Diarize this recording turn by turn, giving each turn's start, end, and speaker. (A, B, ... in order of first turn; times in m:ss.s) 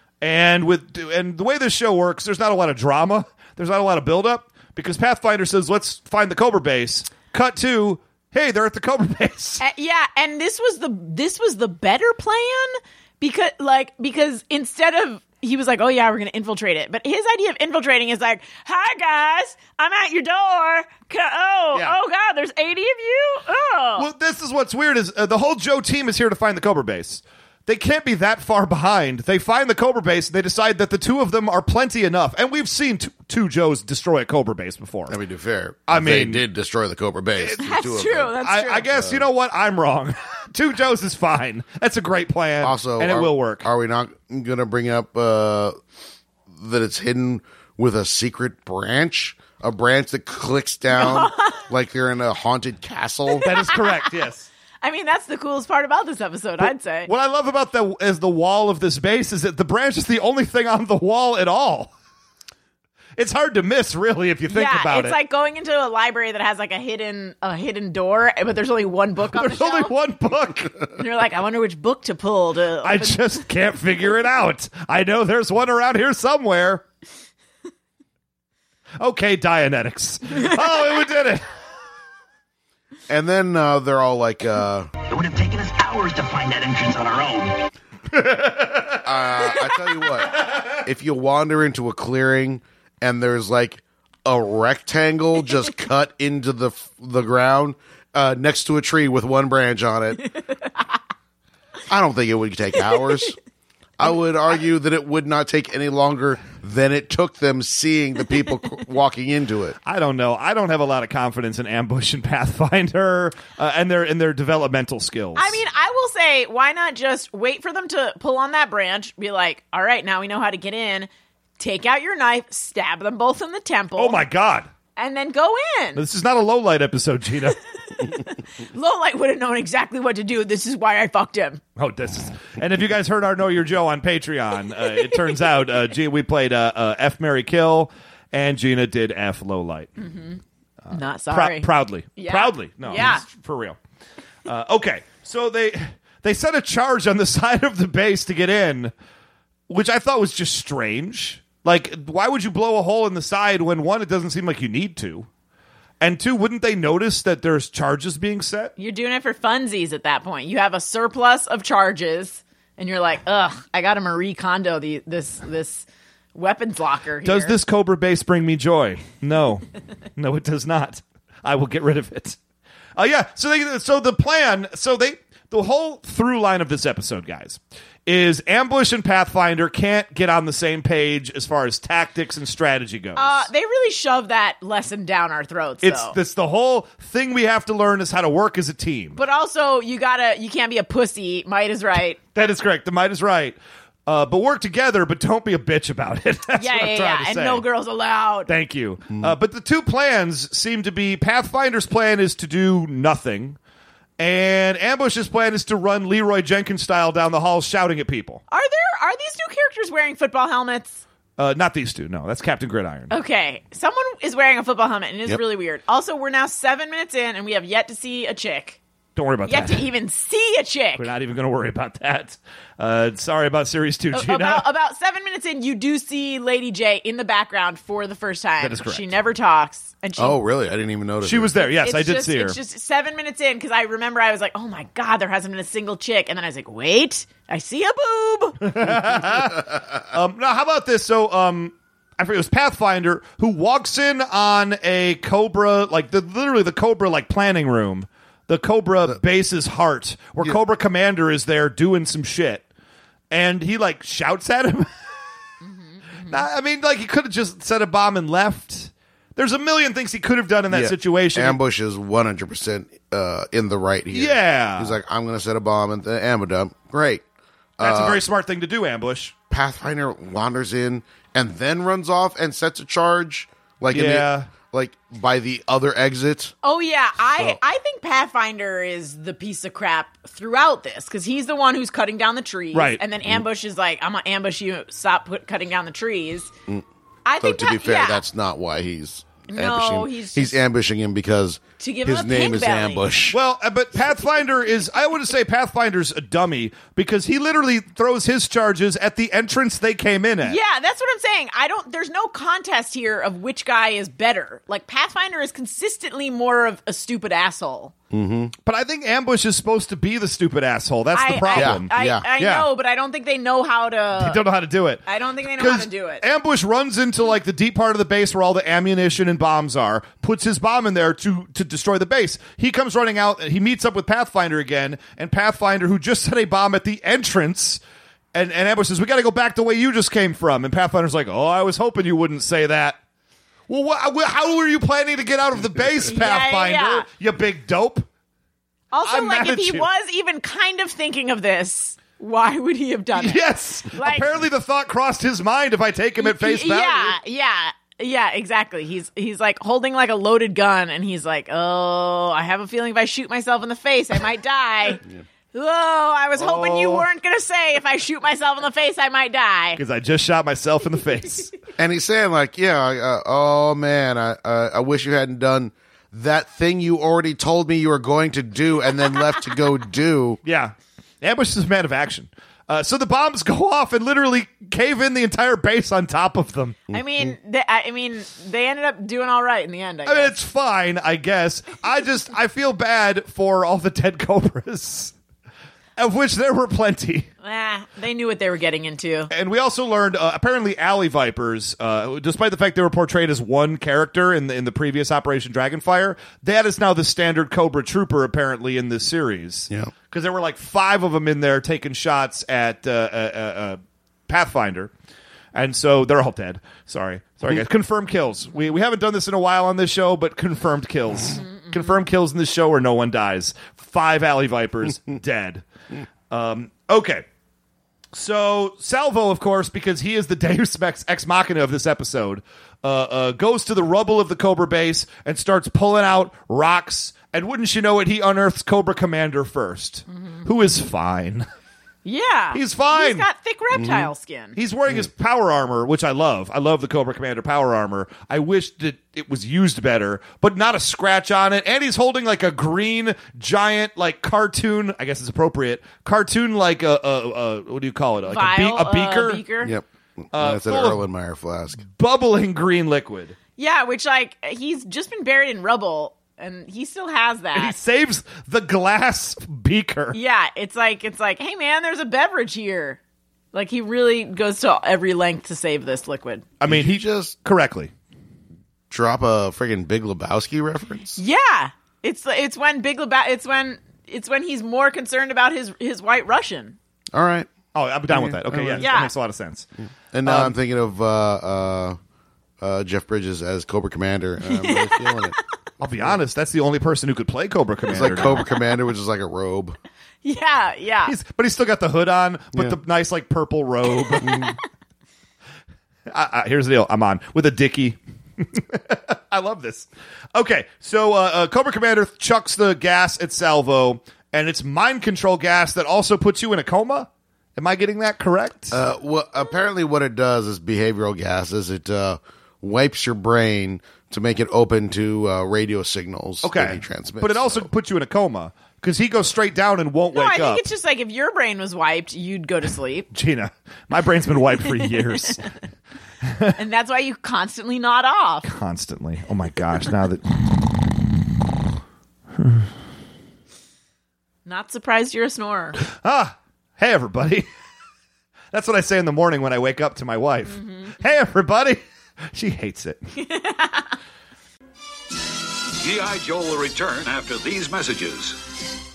0:00.2-0:09.6 A
0:09.6-0:24.1 B
0:24.0-0:35.2 A
0:35.1-0:38.4 C
0:35.9-0:36.4 A
0:37.6-0:38.9 B
0:38.4-0:43.6 A
0:38.9-0:39.2 C
0:42.6-0:45.8 C
0:46.5-0:53.5 C
0:50.9-0:51.6 B
0:53.4-0:54.5 A
0:54.8-0:57.1 B
0:56.6-1:01.9 A
1:03.2-1:05.2 A
1:04.5-1:09.9 B
1:09.3-1:10.8 A
1:10.9-1:13.2 B
1:12.8-1:16.8 A
1:19.0-1:21.4 A
1:23.1-1:24.9 C
1:25.1-1:27.6 D
1:28.1-1:29.1 A
1:29.0-1:40.2 C
1:30.4-1:30.8 A
1:41.9-1:43.4 C
1:44.0-1:49.8 C
1:49.8-1:55.6 A
1:55.3-2:04.2 B
2:04.0-2:04.7 A
2:05.0-2:06.0 B
2:05.9-2:07.6 A
2:08.0-2:11.6 B
2:11.8-2:19.9 A
2:20.0-2:23.2 B
2:20.9-2:23.8 A
2:24.4-2:28.9 A
2:29.7-2:35.3 A
2:36.0-2:38.7 A
2:38.8-2:47.5 B
2:47.2-2:49.6 A
2:50.2-2:52.4 A
2:53.0-3:03.5 A
3:03.2-3:06.2 B
3:05.8-3:09.2 A
3:09.2-3:12.2 B
3:12.3-3:17.6 A
3:16.6-3:18.5 B
3:18.5-3:23.6 A
3:19.1-3:19.3 C
3:24.2-3:28.4 A
3:28.5-3:31.0 B
3:31.4-3:33.1 A
3:33.1-3:38.8 B
3:39.2-3:39.9 A
3:39.5-3:41.1 B
3:41.0-3:44.6 A
3:44.1-3:50.4 B
3:48.6-3:49.1 A
3:50.2-3:51.5 C
3:51.2-3:52.6 A
3:51.6-3:58.7 B
3:58.6-4:12.6 A
3:59.3-3:59.8 C
4:13.3-4:14.9 A
4:15.6-4:16.4 B
4:16.3-4:21.6 A
4:20.7-4:27.2 C
4:24.1-4:25.0 A
4:27.8-4:28.2 C
4:27.8-4:29.3 A
4:29.5-4:36.5 C
4:33.9-4:34.5 A
4:36.6-4:46.5 B
4:42.7-4:43.0 A
4:47.2-4:48.2 B
4:47.4-4:53.4 C
4:49.5-4:50.6 B
4:51.8-4:53.0 B
4:53.3-5:00.6 A
5:00.4-5:07.9 B
5:08.1-5:08.5 C
5:08.6-5:12.7 A
5:11.1-5:14.4 B
5:11.5-5:12.2 C
5:14.1-5:15.0 A
5:15.0-5:16.2 B
5:15.6-5:27.8 A
5:28.3-5:33.0 A
5:33.7-5:38.0 A
5:36.1-5:37.0 B
5:38.9-5:44.3 B
5:39.0-5:39.9 A
5:43.1-5:47.2 A
5:46.2-5:55.0 B
5:55.5-5:59.8 B
5:56.4-5:57.0 A
5:59.8-6:01.5 A
6:01.8-6:10.4 C
6:10.4-6:16.8 A
6:16.9-6:17.3 C
6:16.9-6:20.3 B
6:20.0-6:25.1 A
6:26.0-6:27.3 A
6:27.4-6:29.3 B
6:29.3-6:44.9 A
6:45.5-6:55.6 A
6:56.3-6:57.2 A
6:58.1-7:11.4 A
7:12.0-7:14.6 B
7:12.5-7:13.2 A
7:13.7-7:14.1 C
7:14.6-7:29.4 A
7:28.2-7:29.7 B
7:29.6-7:31.8 C
7:30.3-7:31.0 A
7:31.9-7:33.4 A
7:33.6-7:37.8 B
7:37.5-7:40.2 A
7:40.1-7:43.0 B
7:43.5-7:46.4 B
7:46.6-7:47.9 A
7:46.6-7:47.3 C
7:48.9-7:51.2 C
7:51.2-7:56.8 B
7:57.1-7:57.5 C
7:57.7-7:59.6 A
7:58.1-7:58.9 C
7:58.8-7:59.1 B
8:00.1-8:02.0 C
8:00.2-8:00.5 A
8:02.6-8:05.4 C
8:04.5-8:05.2 B
8:05.8-8:08.4 A
8:07.9-8:09.8 C
8:10.2-8:11.1 B
8:11.0-8:14.5 A
8:14.1-8:14.5 B
8:14.2-8:14.5 C
8:16.1-8:28.8 A
8:28.7-8:37.7 C
8:36.4-8:40.6 A
8:40.1-8:43.1 B
8:43.1-8:45.4 A
8:44.8-8:45.3 B
8:46.2-8:46.6 A
8:46.6-8:48.5 B
8:48.4-8:50.4 A
8:52.4-8:52.7 A
8:54.4-8:55.8 B
8:56.0-8:57.5 A
8:58.5-9:01.8 A
9:02.3-9:03.0 A
9:03.2-9:03.9 B
9:05.8-9:08.4 E